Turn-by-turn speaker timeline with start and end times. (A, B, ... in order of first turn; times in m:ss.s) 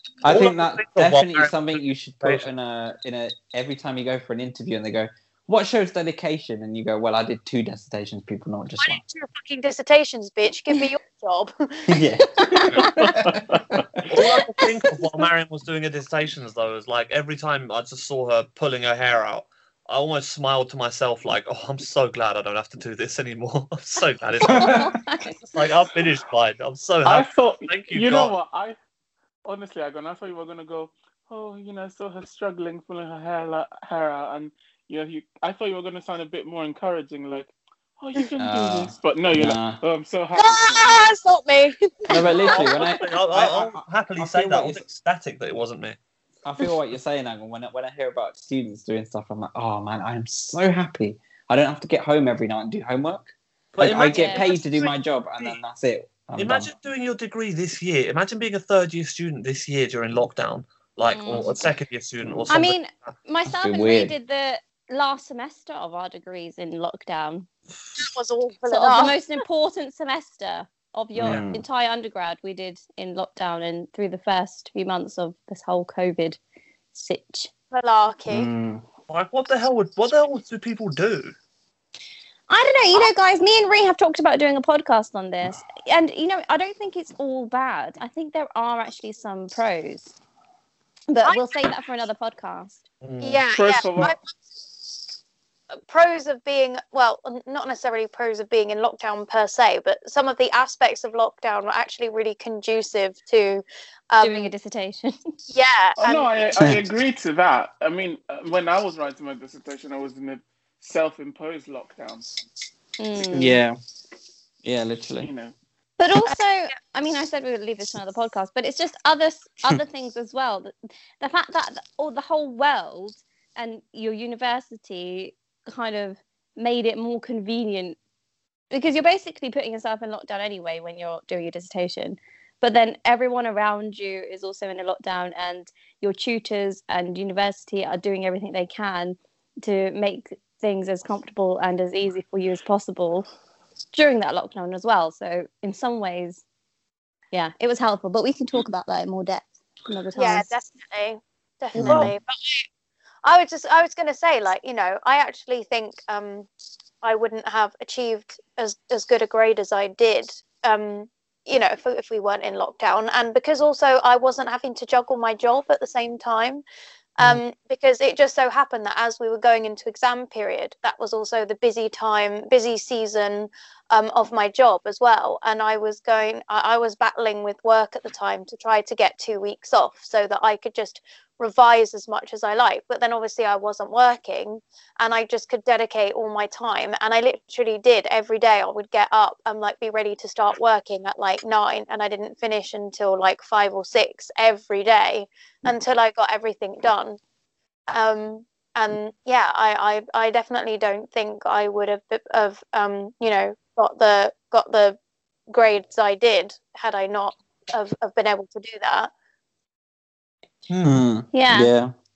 0:00.2-0:09.0 A
0:00.2-0:02.5 B
0:08.8-0:11.9 C
0:11.9-0:13.8 A
0:12.4-0:13.0 D
0:14.0-0:24.8 B
0:24.4-0:25.0 A
0:24.5-0:25.4 D
0:25.5-0:28.3 B
0:27.0-0:28.8 E
0:29.4-0:41.1 E
0:38.4-0:39.8 A
0:40.3-0:42.8 C
0:42.1-0:44.8 A
0:42.4-0:46.0 B
0:46.4-0:56.7 A
0:53.7-0:54.6 B
0:54.1-0:54.5 D
0:56.4-1:03.1 B
1:01.1-1:01.6 D
1:02.2-1:02.5 A
1:02.5-1:07.5 D
1:03.5-1:04.1 A
1:08.0-1:09.2 C
1:08.7-1:16.4 D
1:11.2-1:11.6 A
1:16.9-1:17.5 D
1:17.7-1:18.5 C
1:18.3-1:18.8 A
1:19.1-1:21.3 B
1:22.5-1:30.1 D
1:31.1-1:32.8 D
1:33.0-1:33.4 B
1:33.2-1:34.2 C
1:33.5-1:34.2 E
1:35.8-1:44.5 C
1:44.2-1:45.1 D
1:45.5-1:46.7 C
1:46.0-1:52.3 E
1:46.6-1:46.8 A
1:53.0-1:53.6 D
1:53.3-1:53.8 A
1:54.6-1:55.3 A
1:55.2-1:55.5 E
1:56.0-2:08.0 D
2:08.7-2:23.2 D
2:23.9-2:26.4 D
2:27.3-2:30.5 D
2:30.1-2:32.6 C
2:31.8-2:32.1 A
2:31.8-2:32.1 B
2:33.2-2:36.5 C
2:37.0-2:46.6 C
2:47.2-3:17.2 C
3:17.9-3:25.0 C
3:25.5-3:29.1 C
3:30.7-3:31.0 B
3:30.8-3:31.9 A
3:31.3-3:31.7 D